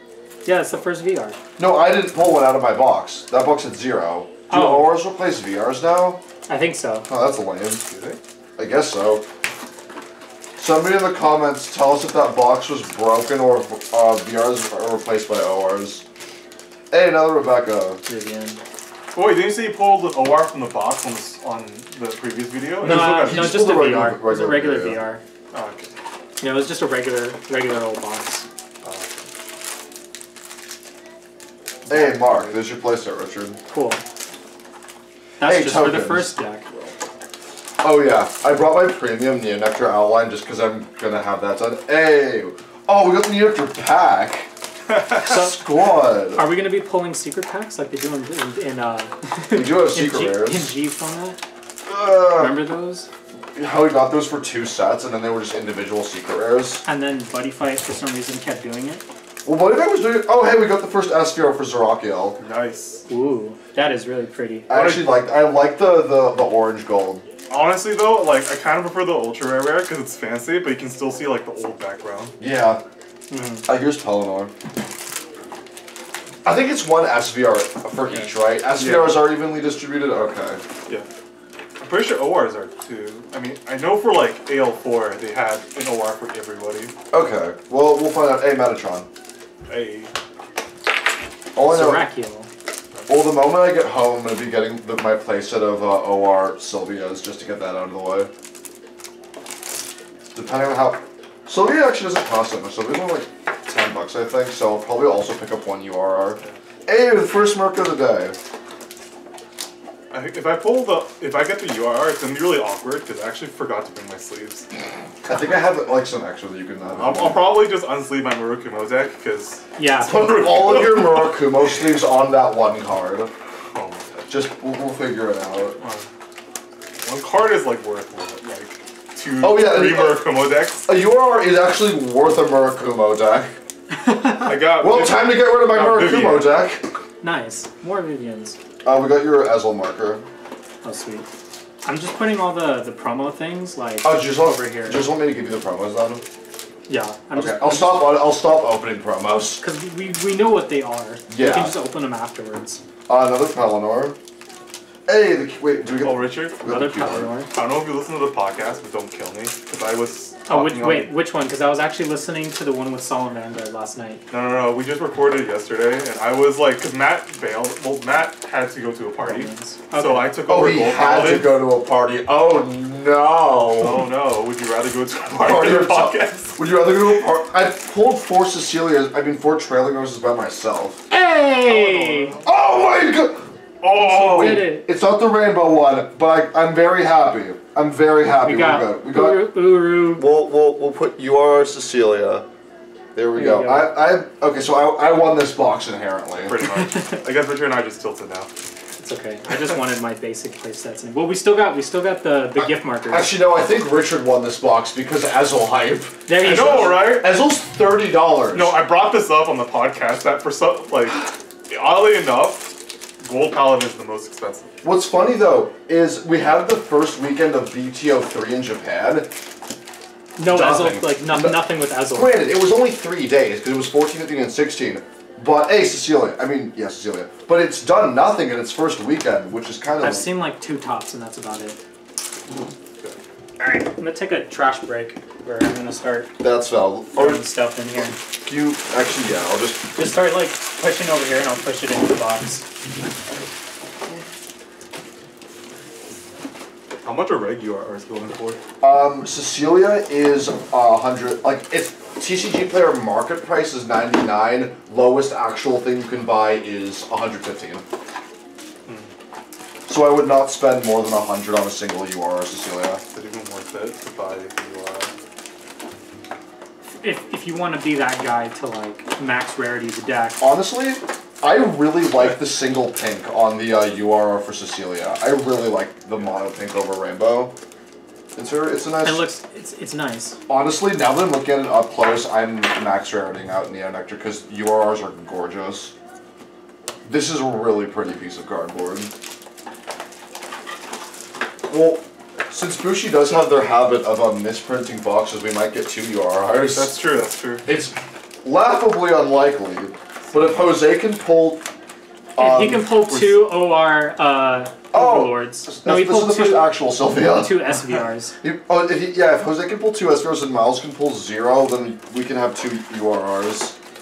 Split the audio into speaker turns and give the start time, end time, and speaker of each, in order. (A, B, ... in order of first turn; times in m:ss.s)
0:00.4-0:01.4 A
0:01.6-0:06.2 B
0:04.5-0:04.9 A
0:06.5-0:07.1 A
0:07.1-0:07.8 B
0:07.8-0:08.2 C
0:08.6-0:09.2 B
0:10.6-0:16.0 B
0:16.9-0:18.0 B
0:18.0-0:18.6 A
0:19.1-0:23.6 C
0:22.8-0:25.2 A
0:22.8-0:25.0 B
0:25.5-0:25.9 C
0:26.4-0:28.5 A
0:28.8-0:29.3 C
0:31.8-0:32.6 C
0:31.9-0:33.6 B
0:33.7-0:34.0 A
0:35.4-0:36.7 A
0:35.4-0:36.3 B
0:37.8-0:44.5 B
0:45.1-0:51.4 A
0:45.1-0:46.4 B
0:49.5-0:50.7 B
0:51.8-0:52.6 B
0:52.2-0:53.1 A
0:53.6-0:56.8 B
0:56.8-0:59.0 A
0:59.4-1:02.4 B
1:02.4-1:03.0 C
1:03.1-1:04.7 A
1:04.7-1:07.2 B
1:04.7-1:05.1 C
1:07.5-1:12.3 C
1:12.4-1:12.8 B
1:13.3-1:13.7 A
1:13.6-1:14.5 B
1:16.4-1:20.6 B
1:18.8-1:19.2 C
1:21.8-1:26.9 C
1:27.1-1:29.1 B
1:29.6-1:30.1 C
1:31.5-1:32.1 B
1:31.6-1:32.5 A
1:33.1-1:38.3 B
1:40.3-1:48.4 B
1:50.1-1:54.7 C
1:55.2-1:57.5 B
1:56.9-2:01.2 C
1:59.8-2:00.5 A
2:00.0-2:03.3 B
2:03.7-2:04.3 C
2:04.3-2:05.8 B
2:05.8-2:06.1 C
2:07.0-2:10.9 C
2:09.4-2:10.3 B
2:10.8-2:13.5 B
2:14.0-2:14.5 A
2:14.4-2:16.5 C
2:14.7-2:16.8 B
2:17.2-2:18.6 A
2:18.8-2:20.2 B
2:20.8-2:21.3 A
2:21.8-2:25.0 A
2:24.0-2:26.2 B
2:26.9-2:28.1 A
2:27.4-2:29.6 B
2:29.6-2:32.8 A
2:31.3-2:31.8 B
2:33.1-2:34.2 B
2:35.1-2:37.3 B
2:36.0-2:36.6 C
2:36.6-2:37.5 A
2:37.5-2:41.1 C
2:40.5-2:44.2 A
2:44.3-2:51.6 C
2:49.2-2:50.3 A
2:50.5-2:54.0 B
2:53.8-2:56.6 C
2:55.3-3:01.0 B
3:01.1-3:02.4 A
3:01.6-3:02.4 C
3:02.4-3:09.5 B
3:03.8-3:04.8 C
3:04.0-3:04.9 A
3:08.4-3:10.3 A
3:10.1-3:12.4 B
3:13.1-3:16.6 B
3:13.3-3:13.9 A
3:16.3-3:18.5 C
3:16.8-3:17.2 A
3:19.0-3:23.3 A
3:22.6-3:28.8 B
3:26.3-3:27.2 A
3:26.4-3:27.3 C
3:28.5-3:34.8 C
3:34.8-3:39.3 B
3:40.4-3:42.3 A
3:40.4-3:50.3 B
3:50.0-3:51.8 A
3:53.6-3:56.3 A
3:56.4-3:57.4 B
3:57.1-3:58.2 A
3:58.4-3:59.8 B
3:59.9-4:02.6 A
4:07.0-4:08.6 C
4:08.8-4:17.8 B
4:18.8-4:19.1 C
4:19.9-4:23.0 B
4:23.1-4:25.1 C
4:27.0-4:30.4 A
4:30.4-4:37.5 B
4:38.4-4:39.3 B
4:39.0-4:40.4 A
4:40.5-4:45.9 B
4:47.0-4:49.1 B
4:51.7-4:57.0 B
4:56.7-4:57.6 C
4:57.6-5:01.6 B
5:02.3-5:02.9 B
5:02.4-5:08.4 A
5:03.0-5:03.5 C
5:04.9-5:07.7 B
5:08.4-5:13.8 B